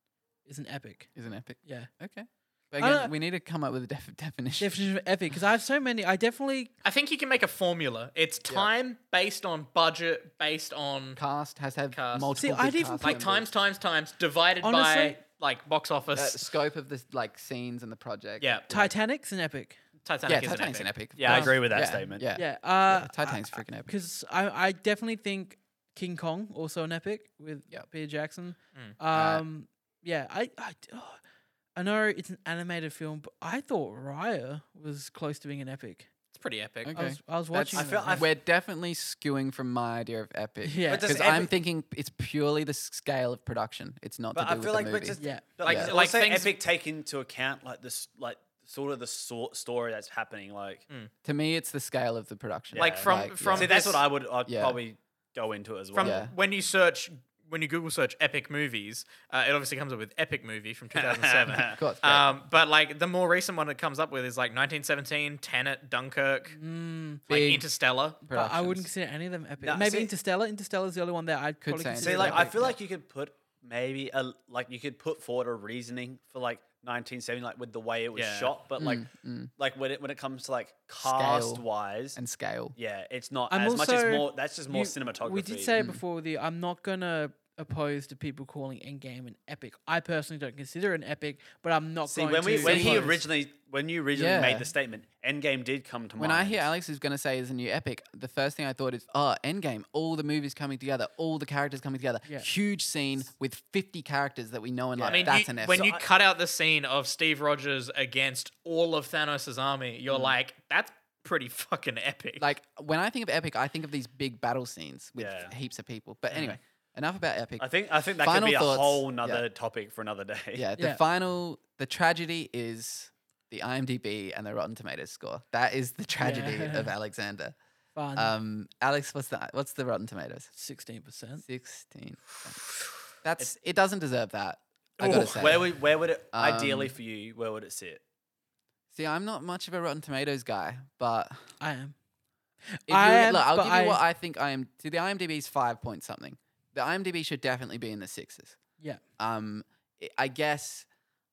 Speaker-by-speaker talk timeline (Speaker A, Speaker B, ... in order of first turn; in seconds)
Speaker A: 0.4-1.1, 1.6-1.9, 2.8-3.1, 4.6-6.7, 12.4-13.2, 14.6-15.2, 18.7-19.8, 21.2-21.5, 22.3-31.2, 31.7-36.1, 36.9-38.3, 40.6-41.3, 45.2-45.5, 66.5-67.2, 68.3-72.6, 83.5-93.2, 126.2-126.9, 128.0-128.3, 130.5-131.4, 141.6-141.9, 142.7-144.0
Speaker B: 1.1-4.7, 11.2-13.5, 16.1-18.9, 20.3-23.9, 29.1-29.4, 36.8-45.9, 51.2-53.7, 54.5-54.8, 56.0-56.3, 61.7-62.2, 67.3-67.7, 68.2-68.9, 71.6-72.8, 78.8-79.5, 81.0-81.6, 82.1-82.7, 85.8-86.0, 92.5-93.1, 94.1-94.7, 96.2-105.9, 112.4-119.4, 120.5-127.5, 128.2-130.5, 131.4-132.6, 133.2-135.8, 136.3-136.9, 138.9-141.5, 142.9-148.6, 149.2-150.9
Speaker C: 6.8-11.2, 11.9-12.3, 13.0-16.4, 18.4-18.7, 20.0-20.9, 36.3-37.0, 45.6-46.5, 52.7-54.0, 55.9-66.6, 67.3-68.2, 78.1-78.5, 105.0-112.5
Speaker D: 21.1-22.2, 37.7-38.3, 40.9-41.5, 44.3-50.8, 52.7-56.2, 60.9-61.8, 69.6-70.1, 72.0-79.0, 79.6-82.2, 82.8-85.8, 92.1-96.7, 105.0-106.0, 115.2-115.5, 117.6-120.7, 135.0-138.0